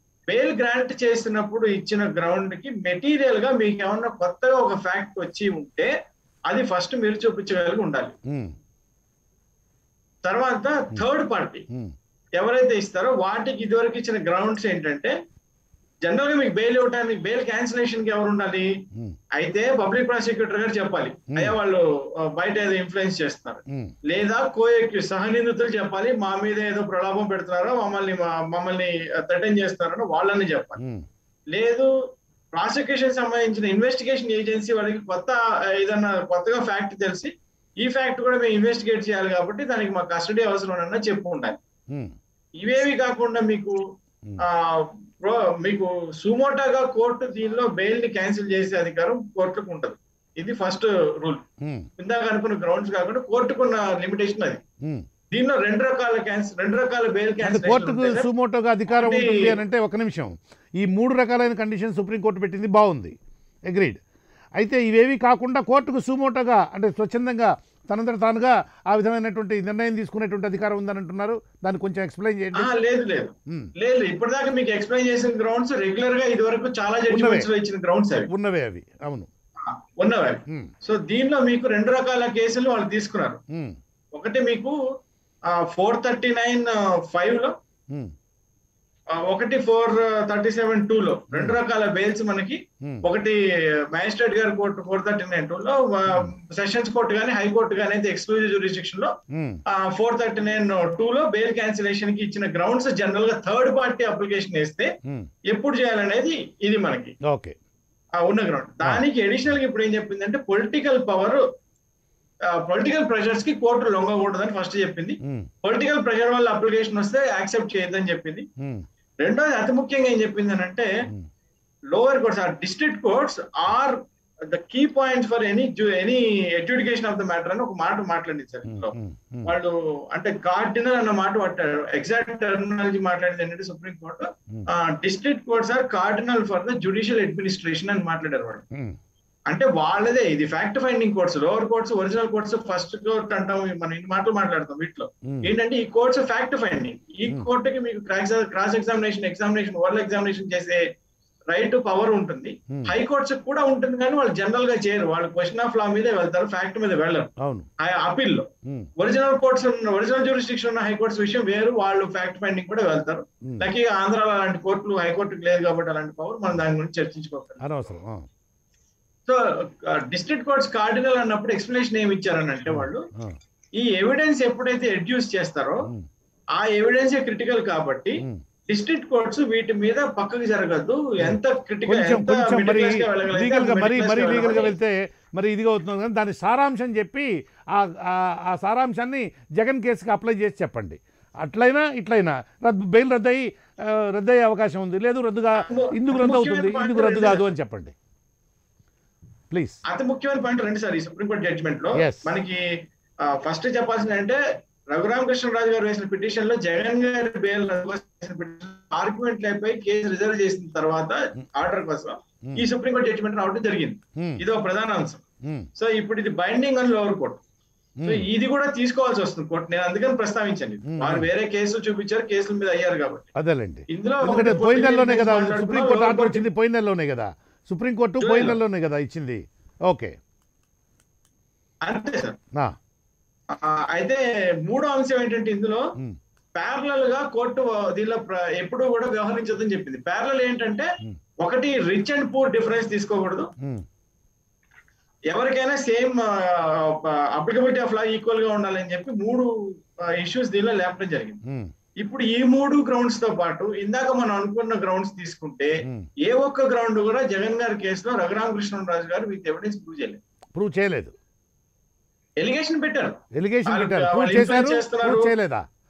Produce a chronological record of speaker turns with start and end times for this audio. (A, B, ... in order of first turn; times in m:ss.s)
0:00.3-0:05.9 A
0:06.5-0:08.1 A
0:10.2-0:11.6 A
0:12.4-0:15.1 A
0:16.0-0:18.7 A
0:19.4-0:21.8 A
0:22.3-0:30.8 A
0:30.8-0:31.0 B
0:31.5-0:31.9 A
0:32.5-0:41.6 A
0:42.6-0:43.8 A
0:44.4-0:51.4 A
0:51.6-0:51.9 B
0:52.0-0:54.6 A
0:55.3-0:58.3 A
0:57.4-1:03.1 B
0:58.9-0:59.6 A
1:03.7-1:04.0 B
1:04.6-1:12.7 B
1:12.6-1:18.3 A
1:17.1-1:17.5 B
1:18.3-1:19.3 B
1:19.6-1:23.4 A
1:24.1-1:24.7 A
1:25.6-1:27.5 A
1:29.2-1:33.4 A
1:33.9-1:39.1 A
1:39.3-1:39.6 B
1:39.7-1:44.9 A
1:45.5-1:47.1 A
1:47.3-1:47.5 B
1:48.2-1:51.4 A
1:52.6-1:58.4 A
1:59.2-2:00.9 A
2:01.9-2:04.0 A
2:04.5-2:18.6 A
2:08.7-2:09.5 B
2:19.5-2:30.8 A
2:31.5-2:38.5 A
2:37.4-2:37.7 B
2:39.0-2:47.7 A
2:47.6-2:48.2 B
2:49.3-2:53.0 A
2:52.6-2:53.3 B
2:53.8-2:55.9 A
2:56.6-3:04.7 A
3:01.2-3:17.9 B
3:15.6-3:17.4 A
3:19.5-3:19.8 B
3:19.8-3:22.6 A
3:22.0-3:22.2 B
3:23.3-3:24.4 A
3:24.9-3:35.2 A
3:35.8-3:37.4 A
3:38.0-3:38.2 B
3:38.0-3:43.3 A
3:40.9-3:41.3 B
3:43.4-3:50.1 B
3:43.9-3:46.4 A
3:48.2-3:48.6 A
3:51.8-3:52.4 A
3:53.6-3:55.8 A
3:56.5-4:00.9 A
4:01.4-4:03.5 A
4:05.3-4:09.5 A
4:10.2-4:11.4 A
4:12.0-4:15.7 A
4:16.2-4:20.2 A
4:20.6-4:21.1 B
4:22.4-4:25.3 A
4:23.3-4:25.6 B